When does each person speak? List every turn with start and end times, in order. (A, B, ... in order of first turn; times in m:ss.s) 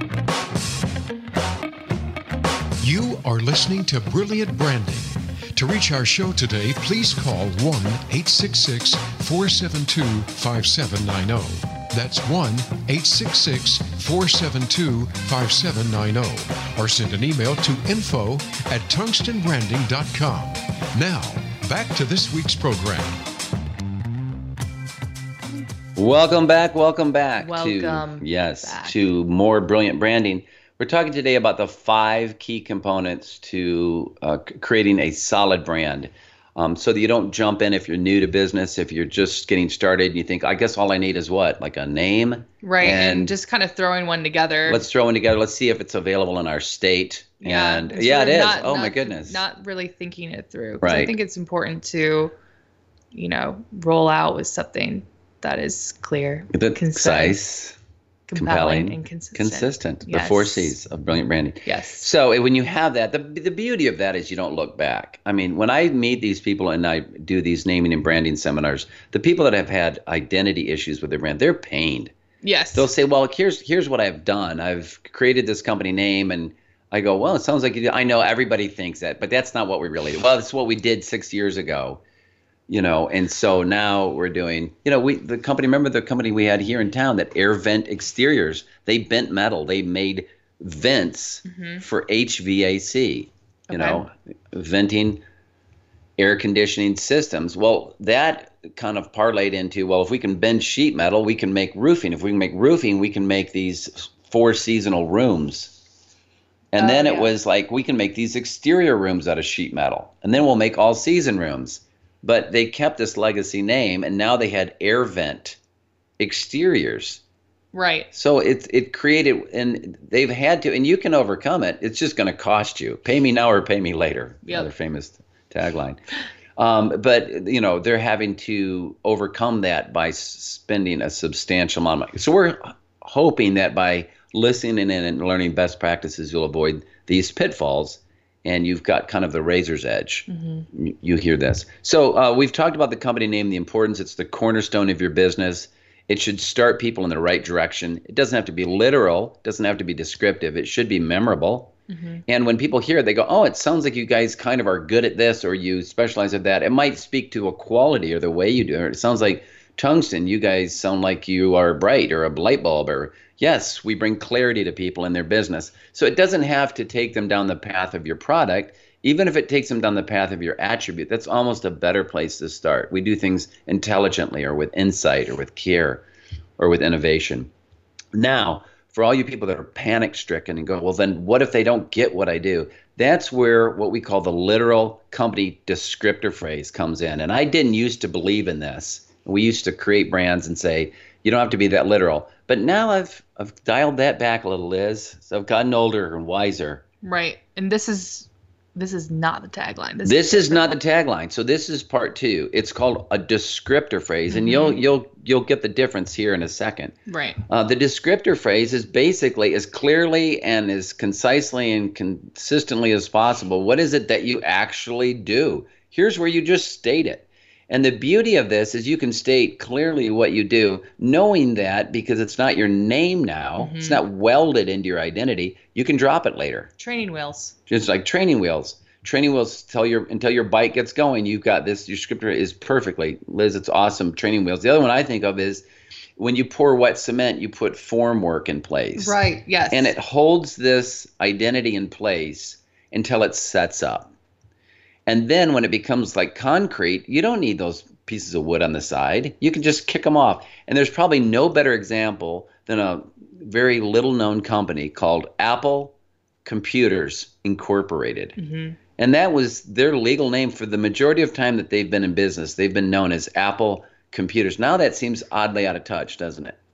0:02.8-0:23.2 A
0:26.0-0:43.3 B
0:27.4-0:29.0 C
0:42.6-0:44.8 C
0:44.7-0:49.4 B
0:47.4-0:52.3 C
0:50.8-0:51.2 B
0:53.1-0:57.4 C
0:56.5-0:57.8 B
0:58.3-1:00.7 C
0:58.3-1:12.1 B
1:01.6-1:02.1 C
1:12.4-1:12.9 C
1:12.7-1:22.0 B
1:22.7-1:35.2 B
1:31.4-1:31.8 C
1:33.7-1:34.0 C
1:36.2-1:45.7 B
1:46.7-1:55.6 B
1:46.8-1:47.3 C
1:56.2-1:57.2 B
1:57.7-1:58.1 C
1:58.1-2:06.0 B
2:06.6-2:31.7 B
2:20.3-2:20.6 C
2:31.9-2:32.2 C
2:32.3-2:56.0 B
2:56.6-2:57.5 B
2:58.1-3:16.8 B
3:17.0-3:20.8 C
3:20.0-3:26.9 B
3:24.3-3:24.8 C
3:27.1-3:27.4 C
3:27.5-3:46.7 B
3:43.6-3:44.0 C
3:46.8-3:47.5 C
3:47.7-3:55.6 B
3:56.2-3:59.2 B
3:59.0-3:59.9 C
3:59.7-4:04.1 B
4:05.0-4:15.9 B
4:16.4-4:18.4 B
4:18.4-4:18.8 C
4:19.0-4:26.6 B